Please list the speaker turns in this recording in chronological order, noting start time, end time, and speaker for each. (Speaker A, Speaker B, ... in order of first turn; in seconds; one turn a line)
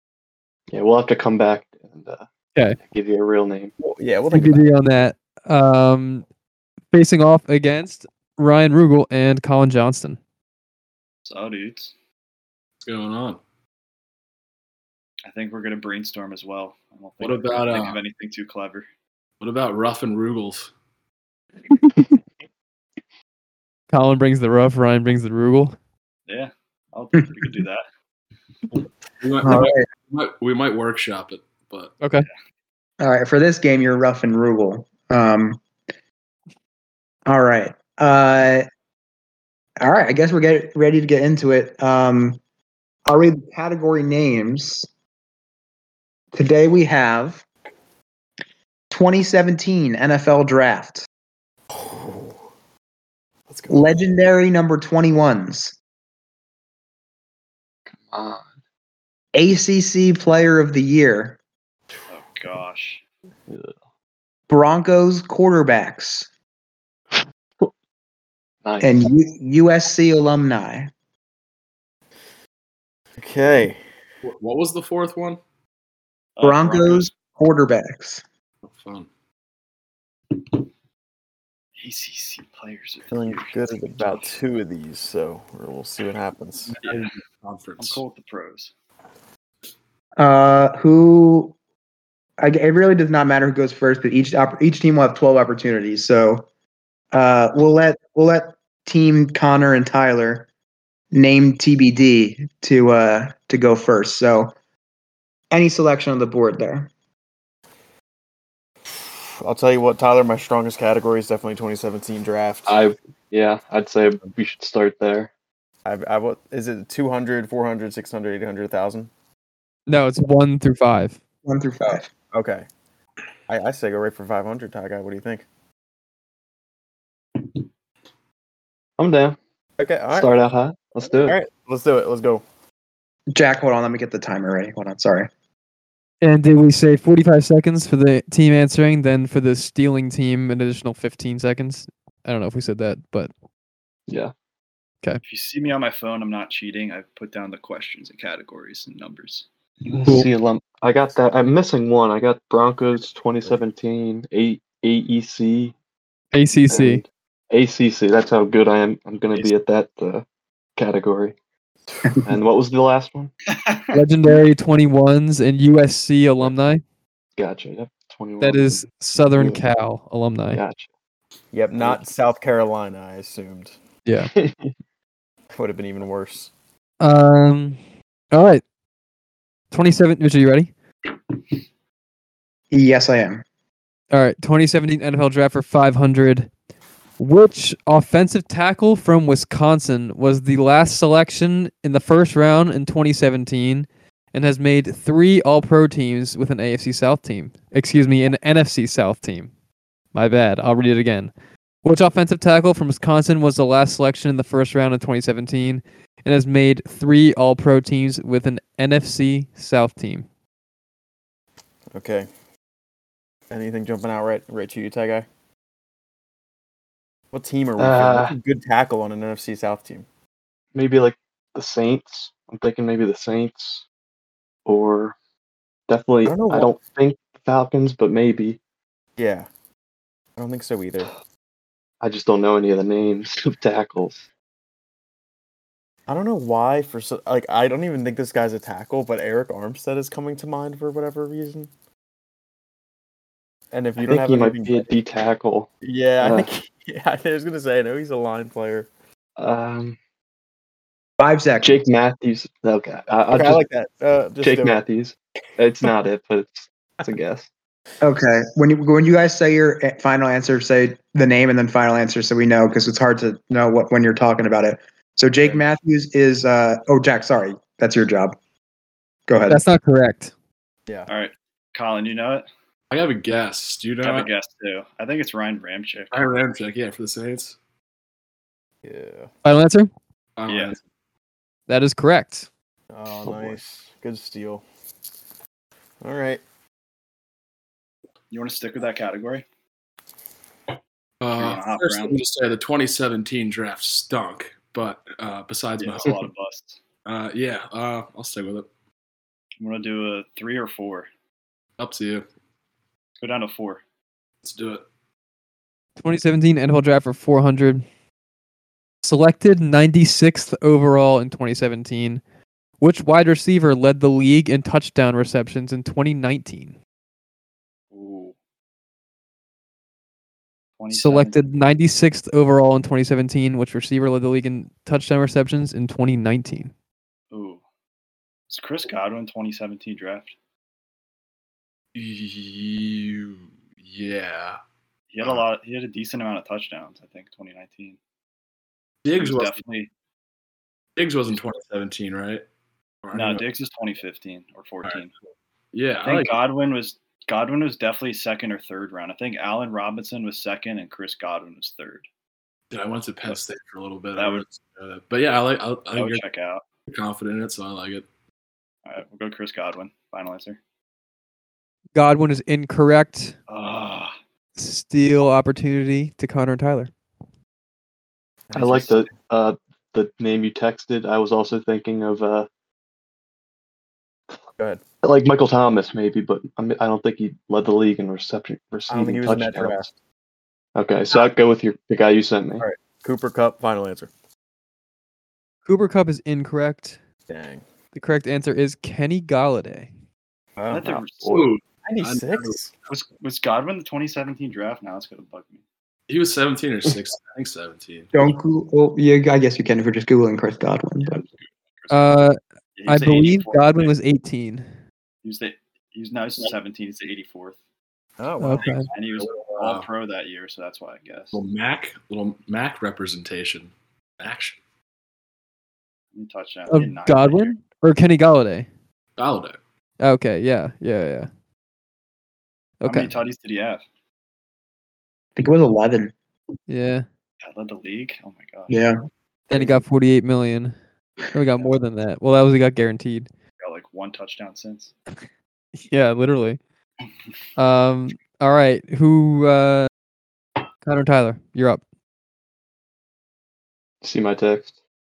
Speaker A: 0.7-2.3
Speaker A: 2.8-3.7
Speaker B: 3.8-4.7
Speaker C: 4.3-6.3
Speaker C: 6.9-10.2
Speaker D: 11.2-11.9
Speaker E: 12.8-13.4
Speaker D: 15.3-18.9
Speaker E: 17.2-18.0
Speaker E: 19.4-20.7
Speaker C: 23.9-25.8
Speaker D: 26.3-27.8
Speaker E: 29.2-31.9
Speaker F: 29.4-29.9
Speaker F: 33.0-35.6
Speaker F: 37.3-38.7
Speaker F: 39.8-42.4
Speaker F: 43.1-44.9
Speaker F: 46.3-47.4
Speaker F: 48.9-51.1
Speaker B: 51.7-52.4
Speaker B: 53.5-54.0
Speaker F: 53.7-55.8
Speaker A: 57.9-58.5
Speaker F: 59.3-61.4
Speaker D: 62.1-63.0
Speaker A: 63.5-63.7
Speaker F: 64.5-66.3
Speaker A: 67.2-67.7
Speaker A: 68.6-69.0
Speaker F: 68.8-70.9
Speaker B: 73.2-73.8
Speaker E: 74.2-75.4
Speaker D: 76.4-77.1
Speaker F: 76.4-78.2
Speaker E: 78.7-79.1
Speaker D: 81.8-84.3
Speaker B: 83.1-86.7
Speaker D: 86.8-87.1
Speaker E: 86.8-88.0
Speaker D: 87.8-88.7
Speaker F: 90.2-91.5
Speaker F: 92.4-96.5
Speaker F: 97.1-100.5
Speaker F: 101.1-104.5
Speaker F: 105.5-106.9
Speaker B: 108.9-112.8
Speaker A: 112.7-115.3
Speaker B: 115.8-119.1
Speaker C: 119.9-121.2
Speaker F: 121.5-122.1
Speaker B: 122.3-122.7
Speaker B: 123.5-125.5
Speaker A: 129.0-129.4
Speaker B: 129.8-130.3
Speaker A: 130.1-131.4
Speaker B: 131.2-132.4
Speaker F: 133.3-135.3
Speaker C: 136.2-143.3
Speaker A: 144.1-144.3
Speaker D: 145.2-149.5
Speaker A: 149.9-155.7
Speaker C: 156.3-157.0
Speaker A: 156.7-161.4
Speaker B: 161.9-162.2
Speaker A: 162.2-163.3
Speaker D: 163.5-164.0
Speaker C: 163.9-166.8
Speaker A: 167.4-169.7
Speaker C: 168.4-170.6
Speaker A: 170.5-170.9
Speaker B: 171.5-173.8
Speaker C: 174.1-174.3
Speaker A: 174.2-174.7
Speaker B: 175.5-176.5
Speaker C: 177.0-177.8
Speaker C: 178.3-178.6
Speaker C: 179.7-180.7
Speaker F: 182.7-183.4
Speaker C: 184.1-186.5
Speaker C: 187.2-199.5
Speaker C: 200.1-201.3
Speaker C: 201.8-210.3
Speaker B: 211.9-212.3
Speaker B: 213.5-215.3
Speaker B: 217.3-220.1
Speaker A: 217.8-218.3
Speaker A: 220.8-223.8
Speaker A: 224.7-225.2
Speaker A: 225.9-228.6
Speaker B: 226.2-226.7
Speaker B: 229.2-229.5
Speaker B: 230.4-231.1
Speaker A: 232.0-234.3
Speaker B: 236.1-241.7
Speaker B: 243.7-245.0
Speaker A: 244.0-245.7
Speaker B: 245.8-248.9
Speaker A: 246.2-246.5
Speaker A: 249.4-250.0
Speaker F: 251.2-251.8
Speaker A: 251.6-253.6
Speaker B: 253.3-254.8
Speaker A: 254.4-257.5
Speaker F: 258.0-268.4
Speaker F: 269.3-269.6
Speaker C: 269.5-270.3
Speaker D: 271.1-272.5
Speaker E: 272.9-274.3
Speaker D: 274.0-276.3
Speaker E: 276.1-277.6
Speaker B: 278.8-279.3
Speaker C: 279.4-279.9
Speaker E: 280.4-280.8
Speaker D: 280.5-280.8
Speaker C: 281.7-282.5
Speaker B: 282.9-284.6
Speaker B: 286.0-286.4
Speaker D: 288.3-289.4
Speaker E: 291.2-296.3
Speaker D: 291.3-292.2
Speaker D: 295.8-296.8
Speaker E: 297.1-298.7
Speaker D: 299.6-301.1
Speaker E: 301.8-302.3
Speaker D: 303.2-303.8
Speaker E: 304.4-304.8
Speaker C: 306.0-307.9
Speaker C: 309.0-312.2
Speaker C: 312.8-316.8
Speaker D: 317.9-318.4
Speaker D: 320.8-321.4
Speaker C: 320.9-326.7
Speaker D: 327.3-327.6
Speaker D: 328.5-330.3
Speaker E: 331.9-334.6
Speaker D: 335.1-338.0
Speaker E: 339.0-339.6
Speaker D: 339.2-339.9
Speaker E: 341.0-342.4
Speaker E: 343.0-343.4
Speaker D: 343.1-345.1
Speaker E: 345.7-346.4
Speaker D: 346.0-352.1
Speaker E: 352.7-356.2
Speaker D: 354.2-354.5
Speaker D: 355.9-356.6
Speaker E: 356.9-358.1
Speaker D: 358.9-360.6
Speaker C: 361.9-363.4
Speaker D: 363.5-364.1
Speaker C: 364.6-366.9
Speaker B: 368.5-369.1
Speaker A: 368.5-372.5
Speaker A: 375.0-379.9
Speaker B: 378.9-379.9
Speaker A: 380.8-382.6
Speaker B: 382.6-384.1
Speaker C: 385.7-387.0
Speaker B: 387.3-387.6
Speaker C: 387.9-389.9
Speaker B: 390.6-391.0
Speaker D: 390.7-391.4
Speaker A: 391.2-391.5
Speaker E: 391.3-392.6
Speaker B: 391.8-392.7
Speaker D: 392.9-395.6
Speaker E: 396.1-398.3
Speaker F: 398.1-401.2
Speaker D: 401.1-402.2
Speaker C: 401.9-404.7
Speaker D: 402.8-403.9
Speaker D: 405.2-407.6
Speaker B: 408.2-408.8
Speaker C: 408.4-408.9
Speaker D: 408.9-411.4
Speaker E: 409.2-409.9
Speaker E: 411.3-414.6
Speaker D: 416.1-417.6
Speaker C: 416.7-418.7
Speaker E: 419.2-419.6
Speaker C: 420.0-421.3
Speaker C: 422.8-423.1
Speaker D: 422.9-423.8
Speaker F: 425.4-426.1
Speaker C: 426.7-427.1
Speaker D: 427.4-428.8
Speaker F: 428.7-429.0
Speaker C: 429.5-430.8
Speaker C: 431.3-433.3
Speaker D: 433.6-434.9
Speaker C: 435.8-436.6
Speaker C: 437.6-439.9
Speaker C: 440.8-441.8
Speaker A: 444.0-444.7